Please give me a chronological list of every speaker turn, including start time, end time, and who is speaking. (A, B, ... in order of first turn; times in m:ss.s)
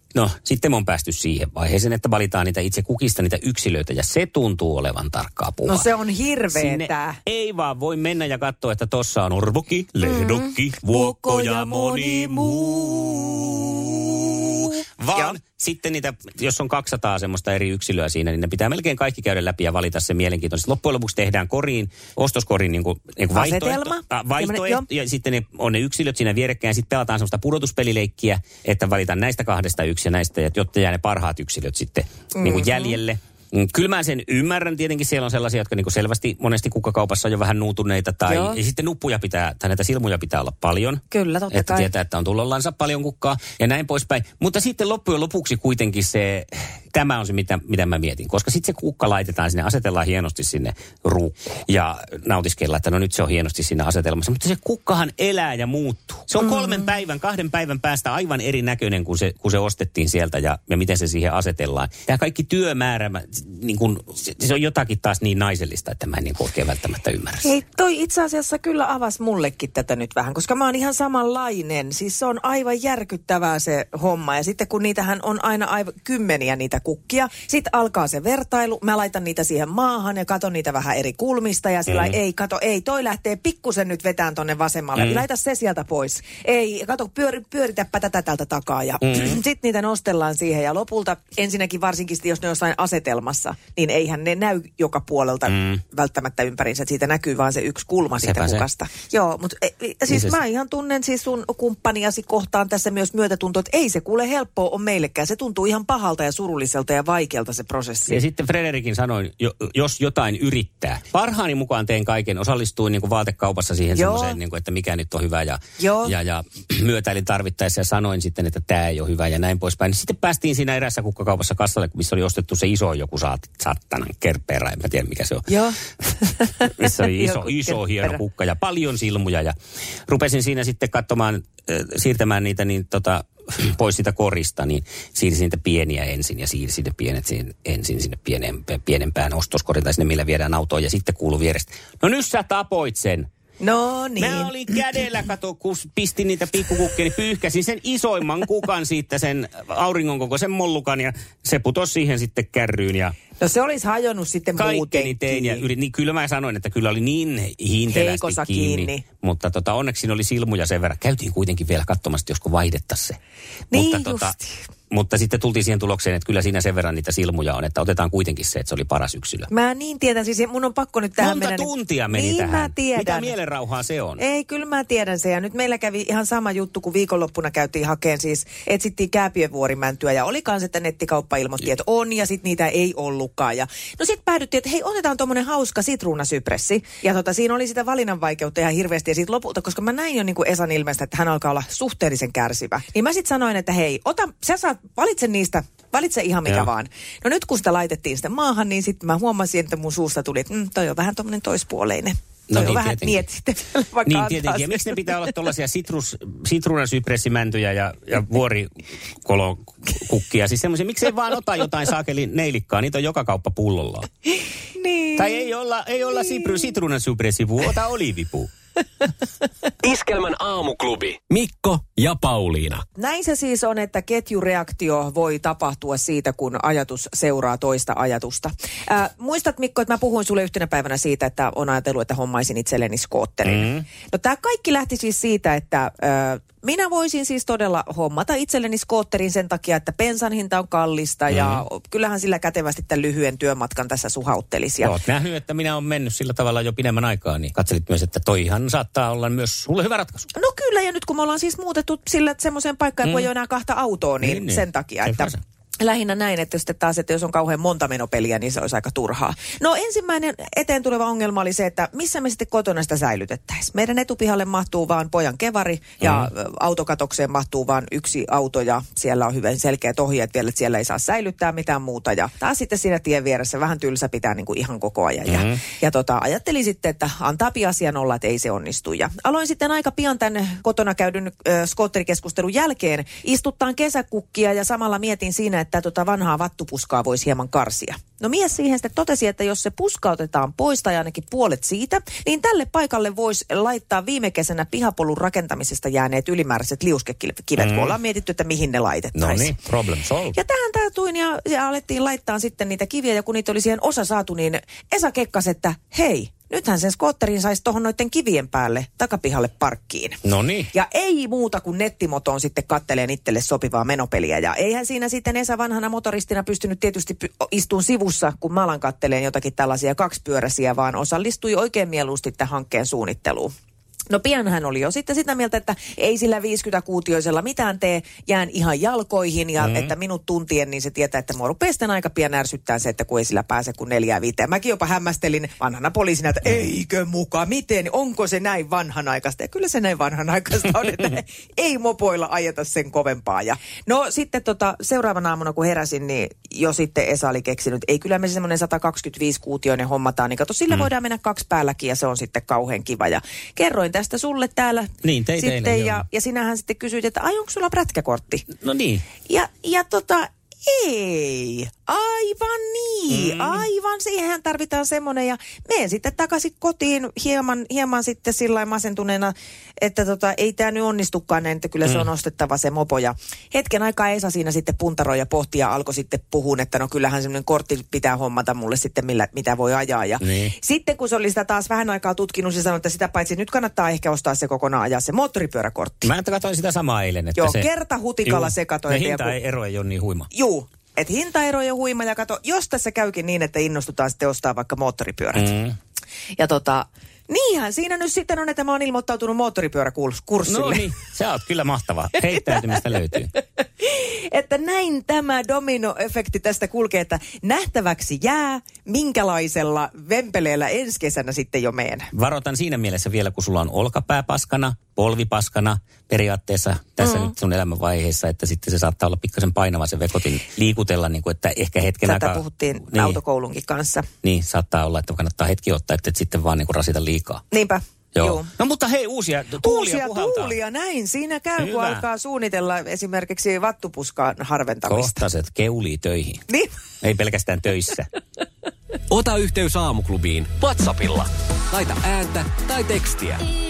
0:00.1-0:05.9 A
0:05.6-0:07.2 B
0:06.5-1:07.5 A
0:10.0-0:13.6 B
0:14.5-0:15.4 B
0:23.3-0:24.8 B
0:32.3-0:33.0 B
0:38.2-0:38.6 B
0:41.1-0:41.9 B
1:07.4-1:48.2 B
1:21.9-1:22.1 A
1:29.0-1:29.4 A
1:35.5-1:35.8 A
1:38.2-1:38.6 A
1:40.1-1:40.3 A
1:48.1-2:05.5 A
1:53.9-1:54.4 B
1:55.8-1:56.1 B
2:05.5-2:08.2 B
2:06.6-2:09.6 A
2:10.1-2:23.3 A
2:23.6-2:24.5 B
2:24.2-2:33.1 A
2:33.4-2:35.6 B
2:34.6-2:43.2 A
2:37.9-2:39.0 B
2:43.7-2:44.6 B
2:43.7-2:44.3 A
2:44.9-2:49.5 A
2:49.5-2:53.3 B
2:51.2-2:54.2 A
2:54.2-3:25.1 B
3:22.5-3:23.2 A
3:24.0-3:28.7 A
3:29.2-3:34.1 A
3:34.8-3:35.5 B
3:35.2-3:38.5 A
3:39.8-3:42.8 C
3:43.0-4:04.9 B
3:53.4-3:53.8 A
4:01.3-4:01.6 A
4:04.8-4:10.3 A
4:10.4-4:59.6 B
4:14.2-4:15.4 A
4:26.0-4:26.3 A
4:35.3-4:35.6 A
4:57.6-4:57.9 A
4:59.1-5:00.4 A
5:00.3-5:10.2 B
5:10.2-5:10.7 A
5:10.7-5:23.5 B
5:24.1-5:58.5 B
5:29.6-5:29.9 A
5:55.0-5:56.0 A
5:58.6-5:59.0 A
5:59.3-6:26.1 B
6:03.1-6:03.6 A
6:20.2-6:20.5 A
6:26.0-6:27.7 A
6:27.4-6:29.4 B
6:28.2-6:30.3 A
6:30.3-6:35.5 B
6:35.3-6:35.7 A
6:36.4-6:40.9 B
6:40.5-6:43.3 A
6:43.8-6:52.1 B
6:52.1-7:02.4 A
7:02.0-7:04.0 B
7:02.9-7:03.2 A
7:04.2-7:07.4 A
7:07.5-7:08.5 B
7:08.1-7:10.6 A
7:09.6-7:15.2 B
7:11.6-7:12.0 A
7:14.9-7:16.4 A
7:17.0-7:18.1 A
7:19.1-7:23.4 C